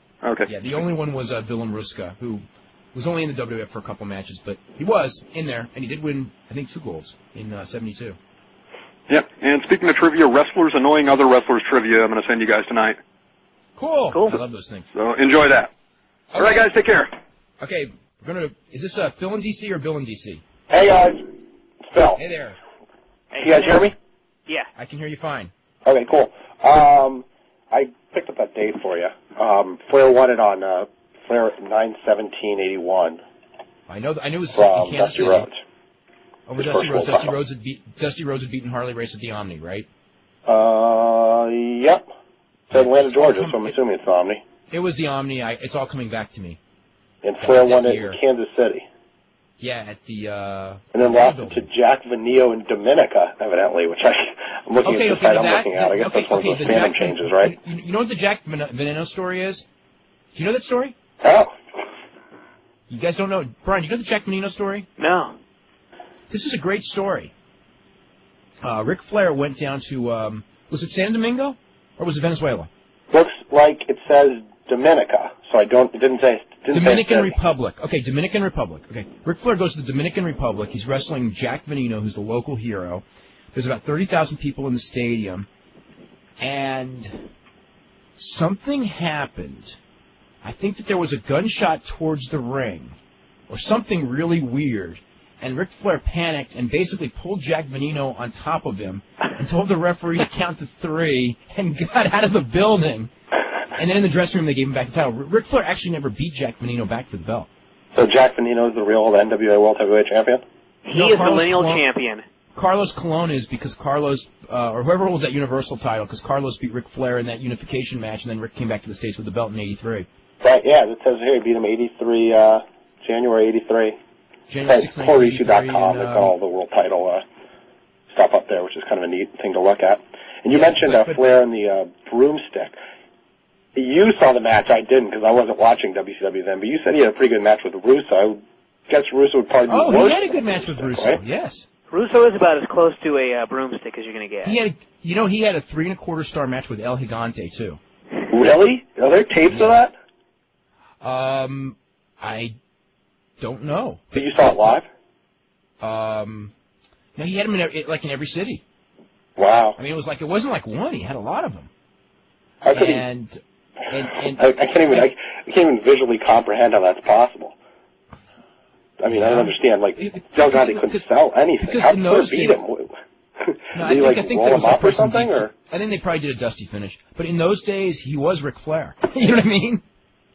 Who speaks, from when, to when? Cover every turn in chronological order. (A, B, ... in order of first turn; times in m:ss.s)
0:00.4-0:08.2 A
0:09.1-0:13.0 B
0:13.8-0:14.9 A
0:15.0-0:15.7 B
0:16.3-0:16.7 A
0:16.4-0:17.1 B
0:17.6-0:20.4 A
0:20.7-0:21.3 C
0:21.9-0:22.2 C
0:22.2-0:22.6 A
0:23.3-0:23.9 D
0:23.4-0:23.9 C
0:24.8-0:25.5 A
0:25.9-0:33.2 C
0:33.9-0:35.5 A
0:34.6-0:35.5 C
0:36.5-0:39.9 A
0:36.6-0:37.3 C
0:40.5-0:42.0 C
0:42.7-0:43.8 A
0:42.7-0:44.4 C
0:44.7-0:46.6 A
0:47.2-0:48.8 C
0:47.4-0:48.2 A
0:49.6-0:51.7 A
0:51.0-0:57.6 C
0:54.8-0:59.7 A
1:00.4-1:00.9 A
1:01.2-1:01.6 C
1:02.9-1:04.9 A
1:05.0-1:05.4 D
1:06.3-1:07.3 A
1:08.6-1:12.7 A
1:13.1-1:17.4 C
1:16.7-1:25.5 A
1:26.4-1:27.3 A
1:28.2-1:29.8 A
1:30.4-1:33.0 A
1:33.5-1:43.1 A
1:43.8-1:47.5 A
1:48.0-1:50.4 C
1:50.8-1:52.2 D
1:50.9-1:51.8 A
1:52.5-2:00.1 A
2:00.4-2:04.0 C
2:04.5-2:06.3 A
2:04.7-2:07.2 C
2:08.1-2:12.7 C
2:10.5-2:11.2 A
2:13.8-2:21.2 C
2:19.7-2:21.7 A
2:21.9-2:24.6 D
2:24.4-2:27.8 A
2:28.3-2:29.9 C
2:29.5-2:29.8 A
2:31.0-2:32.6 A
2:33.4-2:34.8 A
2:34.1-2:34.9 C
2:35.8-2:36.5 A
2:37.2-2:38.6 A
2:39.4-2:39.8 C
2:39.8-2:41.7 A
2:42.6-2:43.0 C
2:42.7-2:45.1 A
2:44.4-2:47.5 C
2:49.0-2:52.9 C
2:49.1-2:51.1 A
2:51.6-2:52.6 A
2:53.4-2:55.5 C
2:53.7-2:59.8 A